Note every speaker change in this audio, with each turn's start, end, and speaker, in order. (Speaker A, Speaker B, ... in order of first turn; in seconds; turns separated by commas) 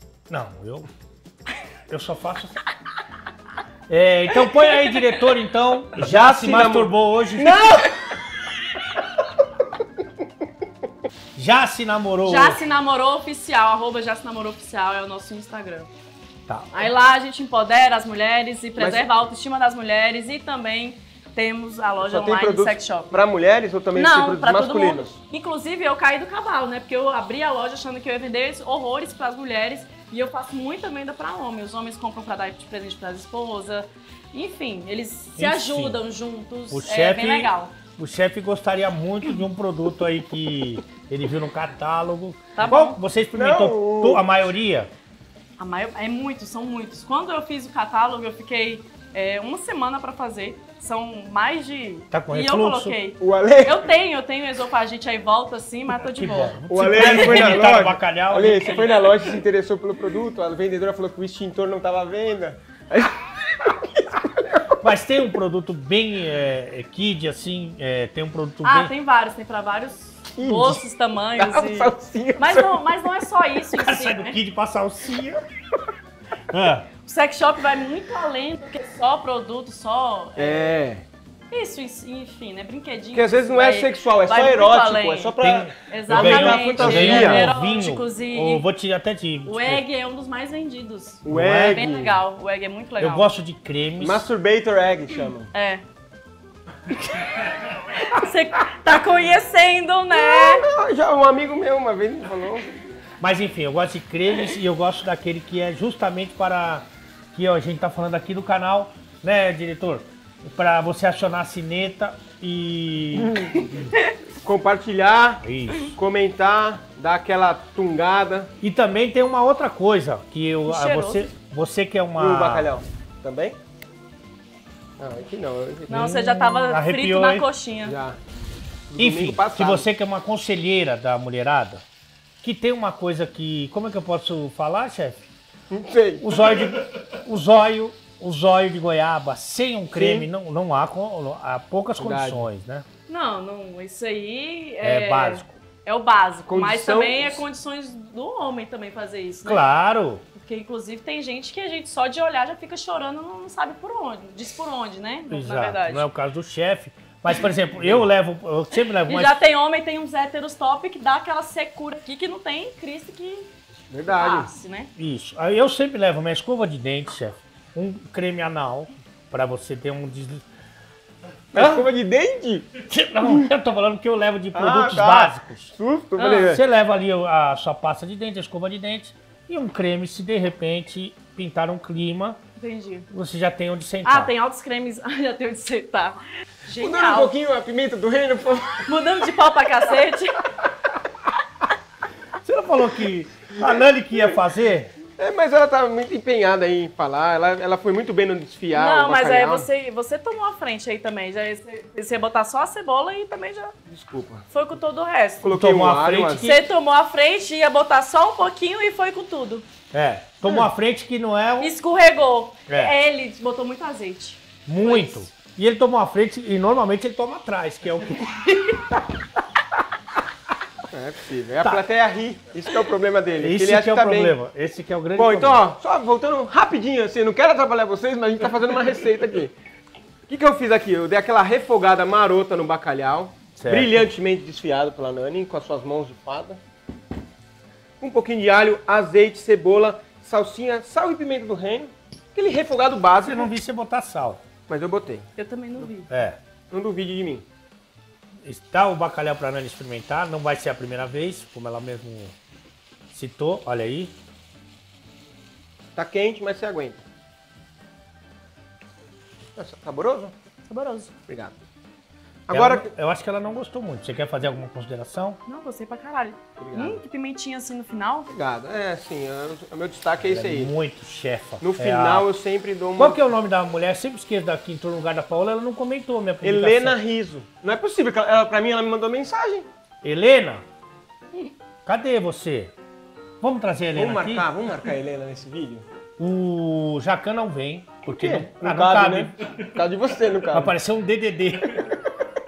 Speaker A: 0.3-0.9, Speaker A: 1.9-2.5, Speaker A: 3.9-7.6, Speaker B: 6.0-8.1, Speaker A: 11.3-12.6, Speaker C: 12.2-15.9, Speaker A: 16.5-16.9, Speaker C: 16.7-23.2, Speaker B: 18.8-19.1, Speaker B: 22.0-25.1, Speaker C: 23.9-37.8, Speaker A: 35.4-36.0, Speaker A: 36.7-44.9, Speaker C: 42.5-43.0, Speaker B: 43.3-44.4, Speaker C: 45.6-57.6, Speaker A: 52.1-53.0, Speaker B: 53.2-53.8, Speaker A: 56.1-58.9, Speaker B: 56.7-64.6, Speaker A: 64.8-68.9, Speaker C: 68.6-74.4, Speaker B: 70.4-70.8, Speaker B: 71.4-72.9, Speaker A: 73.7-75.4, Speaker A: 76.5-76.9, Speaker C: 77.0-80.8, Speaker B: 80.4-81.0, Speaker C: 81.5-88.6, Speaker B: 83.1-87.5, Speaker A: 85.4-89.8, Speaker C: 89.4-93.3, Speaker B: 91.2-92.2, Speaker A: 91.3-91.8, Speaker A: 93.0-94.2, Speaker B: 94.0-95.5, Speaker C: 95.5-95.8, Speaker C: 97.2-100.6, Speaker B: 100.1-102.7, Speaker A: 103.2-113.3, Speaker B: 113.2-113.7, Speaker B: 114.4-118.5, Speaker A: 115.4-115.9, Speaker A: 118.6-122.7, Speaker C: 120.7-121.2, Speaker B: 122.2-123.6, Speaker B: 125.0-126.1, Speaker A: 125.9-127.5, Speaker C: 125.9-128.0, Speaker B: 127.8-128.2, Speaker B: 128.9-129.9, Speaker A: 129.0-131.8, Speaker A: 132.4-135.2, Speaker B: 135.7-136.3, Speaker A: 136.2-142.9, Speaker B: 139.9-140.3, Speaker B: 142.0-142.5, Speaker C: 143.1-149.6, Speaker A: 144.8-145.5, Speaker B: 146.5-147.4, Speaker A: 149.4-150.2, Speaker C: 150.3-156.1, Speaker A: 155.3-159.3, Speaker B: 157.8-158.1, Speaker C: 158.9-163.5, Speaker B: 163.9-164.5, Speaker C: 164.1-164.9, Speaker A: 164.9-170.4, Speaker A: 171.5-171.8, Speaker B: 171.5-172.7, Speaker A: 172.8-175.7, Speaker B: 173.2-173.5, Speaker B: 174.5-176.6, Speaker C: 176.2-176.5, Speaker A: 176.4-182.4, Speaker C: 182.6-183.1, Speaker A: 183.1-184.3, Speaker C: 184.0-187.3, Speaker B: 186.8-188.9, Speaker C: 188.8-190.4, Speaker B: 190.6-190.9, Speaker A: 192.4-194.9, Speaker B: 195.2-199.7, Speaker C: 198.7-203.7, Speaker B: 203.9-204.4, Speaker C: 204.5-205.5, Speaker B: 205.4-206.5, Speaker A: 205.5-206.6, Speaker C: 206.4-209.7, Speaker A: 209.9-211.7, Speaker C: 211.6-215.3, Speaker A: 212.7-212.9, Speaker A: 214.7-218.9, Speaker B: 220.9-224.3, Speaker A: 223.4-225.6, Speaker B: 225.1-229.5, Speaker B: 230.3-236.6, Speaker A: 233.6-234.1, Speaker B: 238.0-243.5, Speaker A: 243.2-244.4, Speaker B: 244.7-245.3, Speaker C: 245.3-246.1, Speaker A: 246.1-246.4, Speaker B: 246.7-247.4, Speaker A: 248.4-252.3, Speaker A: 253.1-254.1, Speaker B: 255.9-257.0, Speaker B: 259.6-260.3, Speaker C: 260.7-261.1, Speaker B: 261.3-261.5, Speaker B: 262.5-262.9, Speaker A: 262.5-265.4, Speaker C: 265.4-268.3, Speaker B: 266.6-267.0, Speaker B: 268.3-270.7, Speaker A: 270.2-272.3, Speaker B: 271.6-273.2, Speaker A: 273.0-276.9, Speaker B: 276.4-279.7, Speaker A: 280.0-280.6, Speaker A: 281.9-282.7, Speaker A: 283.4-284.5, Speaker B: 283.9-285.9, Speaker A: 286.2-289.4, Speaker B: 288.1-290.8, Speaker A: 290.5-291.8